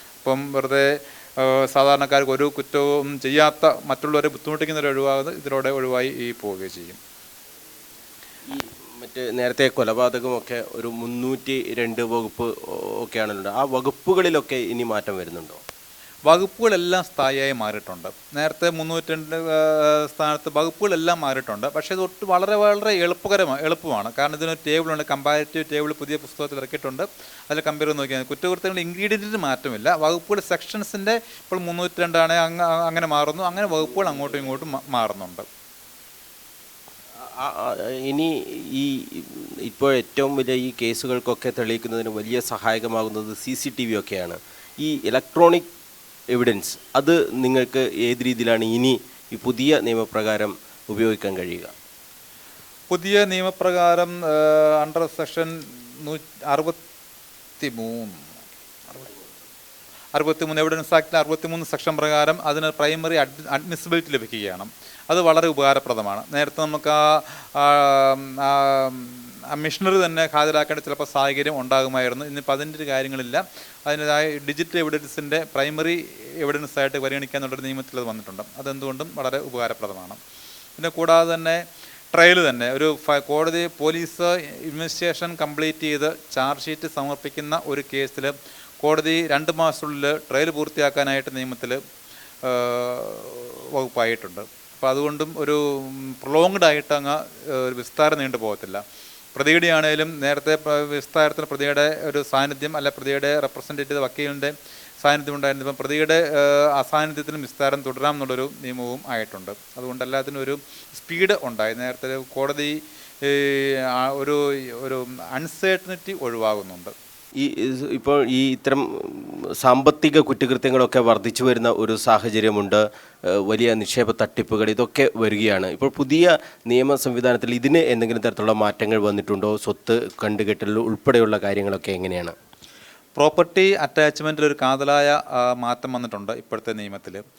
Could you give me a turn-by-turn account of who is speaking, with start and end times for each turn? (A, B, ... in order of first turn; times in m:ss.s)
0:00.2-0:07.0 A
0:08.5-0:15.6 B
0:16.3-0:35.4 A
0:37.2-0:45.7 B
0:46.3-0:51.7 B
0:52.9-0:56.8 A
0:57.6-0:58.2 A
1:00.1-1:20.2 A
1:20.8-1:21.6 A
1:22.1-1:31.8 A
1:32.4-1:38.8 A
1:39.3-1:56.9 A
1:57.4-2:12.3 B
2:13.2-2:17.2 A